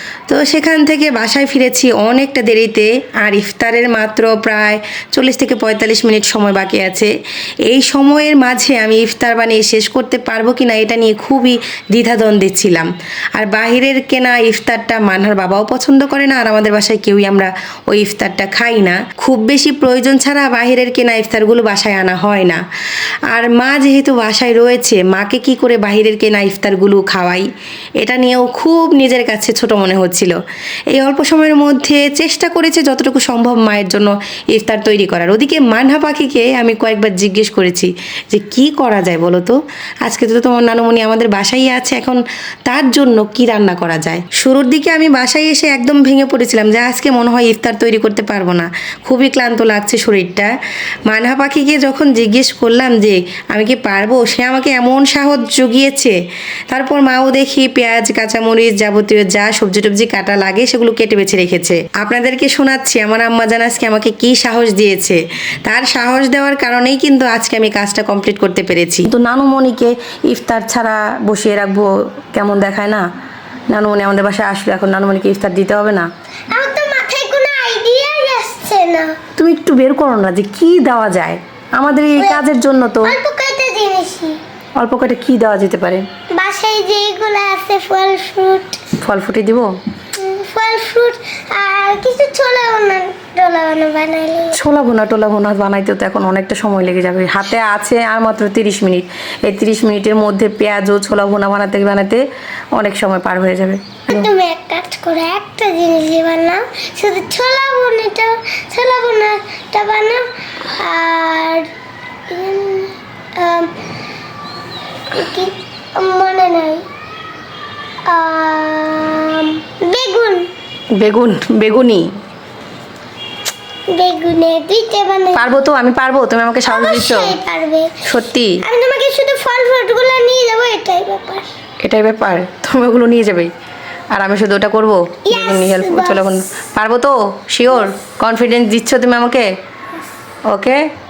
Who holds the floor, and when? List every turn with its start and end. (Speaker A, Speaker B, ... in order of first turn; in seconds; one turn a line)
Speaker A: 0.3-7.1
Speaker A: 7.7-22.6
Speaker A: 23.3-27.4
Speaker A: 28.0-30.4
Speaker A: 30.9-50.5
Speaker A: 51.1-56.2
Speaker A: 56.7-73.0
Speaker A: 73.7-76.1
Speaker B: 76.5-79.1
Speaker A: 79.4-83.1
Speaker B: 82.2-82.5
Speaker B: 83.0-84.4
Speaker A: 84.8-86.0
Speaker B: 86.3-88.8
Speaker A: 89.0-89.7
Speaker B: 90.1-94.5
Speaker A: 94.5-102.2
Speaker A: 102.8-104.3
Speaker B: 104.1-111.7
Speaker B: 112.3-113.7
Speaker B: 115.1-116.8
Speaker B: 118.0-120.5
Speaker A: 121.0-122.1
Speaker B: 123.9-125.5
Speaker A: 125.3-127.3
Speaker B: 126.7-128.0
Speaker A: 128.1-128.6
Speaker B: 128.6-131.5
Speaker A: 131.8-133.5
Speaker A: 134.1-139.5
Speaker B: 135.3-136.3
Speaker A: 140.5-140.8